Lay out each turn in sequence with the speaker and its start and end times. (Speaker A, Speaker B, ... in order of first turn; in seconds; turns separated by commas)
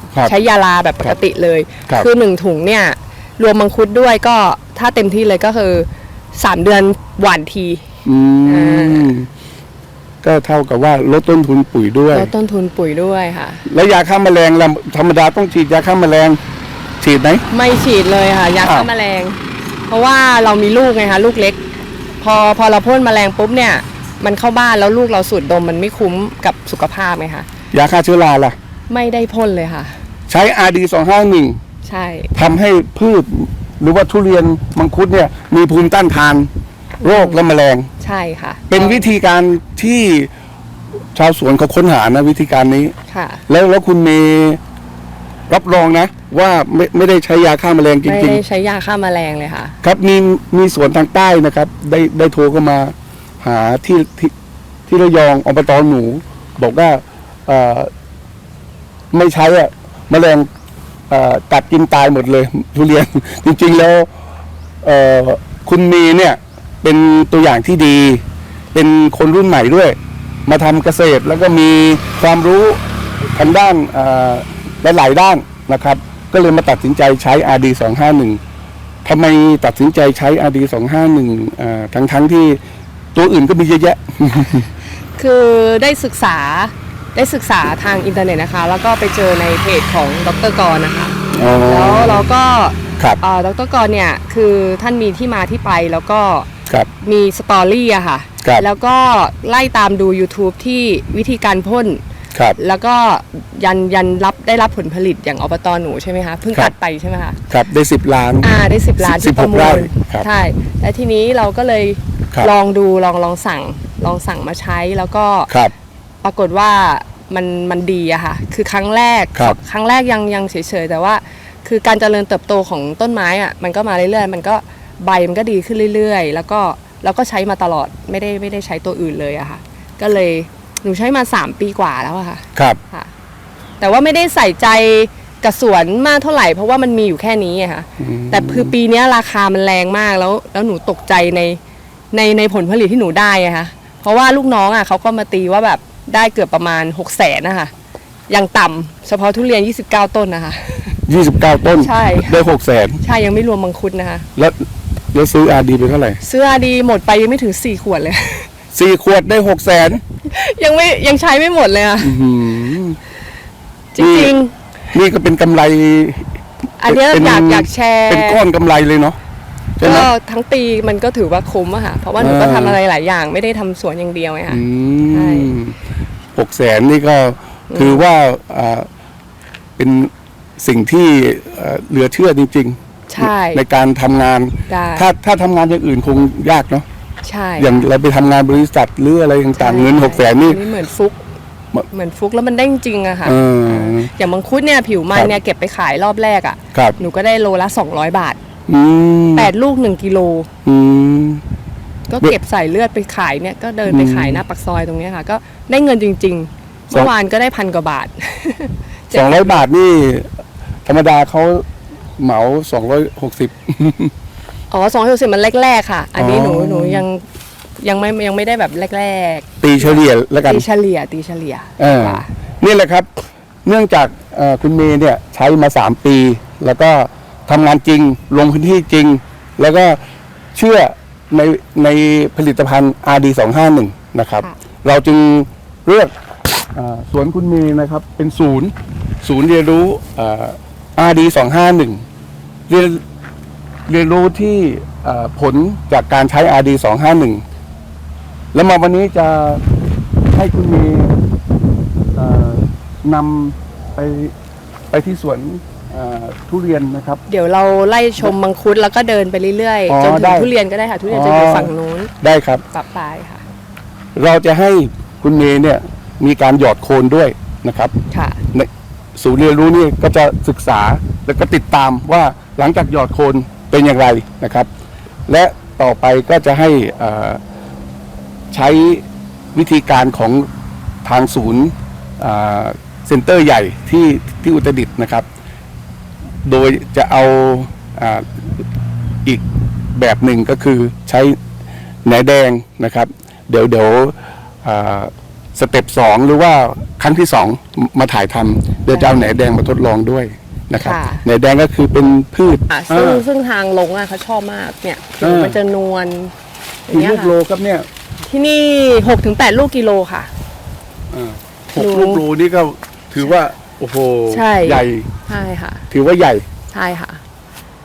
Speaker A: 0.1-0.4, Speaker B: 0.2-7.8, Speaker A: 8.1-9.3, Speaker B: 8.4-9.2, Speaker A: 10.2-12.3, Speaker B: 12.1-13.6, Speaker A: 13.7-16.4, Speaker A: 17.0-17.4, Speaker B: 17.5-21.6, Speaker A: 18.6-18.9, Speaker B: 22.2-27.5, Speaker A: 27.7-28.6, Speaker B: 28.9-30.0, Speaker A: 30.3-31.6, Speaker B: 31.9-32.3, Speaker A: 32.4-36.5, Speaker B: 37.0-37.4, Speaker A: 37.0-37.9, Speaker B: 38.0-39.1, Speaker A: 38.7-40.3, Speaker A: 41.1-42.9, Speaker B: 43.1-43.4, Speaker A: 43.5-44.6, Speaker A: 45.5-48.4, Speaker B: 48.1-49.8, Speaker A: 49.8-54.3, Speaker A: 54.9-57.9, Speaker A: 59.1-60.5, Speaker A: 61.1-64.1, Speaker A: 64.8-72.8, Speaker A: 73.3-78.4, Speaker A: 79.0-82.6, Speaker A: 83.2-84.7, Speaker B: 85.2-96.5, Speaker A: 91.3-92.2, Speaker B: 97.0-102.0, Speaker B: 102.6-107.4, Speaker A: 107.5-110.3, Speaker B: 108.4-115.5, Speaker A: 115.5-115.7, Speaker B: 116.2-133.1, Speaker B: 133.8-141.6, Speaker A: 138.0-138.8, Speaker B: 142.1-147.7, Speaker B: 148.3-151.0, Speaker A: 151.1-153.0, Speaker B: 151.8-152.4, Speaker B: 153.0-154.3, Speaker A: 154.4-156.2, Speaker B: 156.2-158.5, Speaker A: 158.7-160.0, Speaker B: 160.3-162.2, Speaker A: 162.0-163.0, Speaker B: 163.9-164.5, Speaker A: 164.0-164.3, Speaker A: 164.9-169.2, Speaker B: 166.8-168.4, Speaker A: 169.8-170.1, Speaker B: 169.8-175.5, Speaker A: 172.2-172.8, Speaker A: 174.5-175.8, Speaker A: 176.3-178.9, Speaker B: 177.7-178.0, Speaker A: 179.8-186.9, Speaker B: 183.1-183.6, Speaker B: 184.7-185.1, Speaker B: 187.2-187.7, Speaker A: 187.6-190.6, Speaker B: 189.6-191.2, Speaker B: 191.9-198.4, Speaker A: 193.2-194.1, Speaker A: 198.7-199.5, Speaker B: 199.3-200.5, Speaker A: 200.7-201.4, Speaker B: 202.1-209.6, Speaker A: 203.9-204.4, Speaker A: 209.1-210.3, Speaker A: 210.9-211.7, Speaker A: 212.2-214.1, Speaker B: 214.7-217.2, Speaker A: 216.2-217.1, Speaker B: 217.8-222.3, Speaker A: 219.6-220.7, Speaker A: 221.8-223.1, Speaker A: 223.7-230.0, Speaker A: 230.6-236.1, Speaker A: 236.7-242.1, Speaker A: 242.7-243.0, Speaker A: 243.9-247.4, Speaker A: 248.5-249.6, Speaker A: 250.3-251.2, Speaker A: 252.1-254.3, Speaker A: 254.9-257.2, Speaker B: 257.3-262.1, Speaker A: 259.9-260.5, Speaker A: 261.1-262.6, Speaker B: 262.7-263.4, Speaker A: 264.1-267.9, Speaker B: 268.1-268.4, Speaker A: 268.5-274.7, Speaker A: 275.3-277.4, Speaker A: 278.5-280.5, Speaker A: 281.0-285.3, Speaker A: 286.4-288.6, Speaker A: 289.9-291.4, Speaker A: 292.1-303.3, Speaker B: 298.9-299.3, Speaker B: 300.8-301.2, Speaker B: 302.7-306.3, Speaker A: 305.2-305.6, Speaker B: 306.9-307.3, Speaker A: 306.9-307.9, Speaker B: 308.3-310.3, Speaker A: 311.1-315.1, Speaker B: 311.8-312.2, Speaker B: 314.3-315.9, Speaker A: 315.9-316.5, Speaker B: 316.7-317.2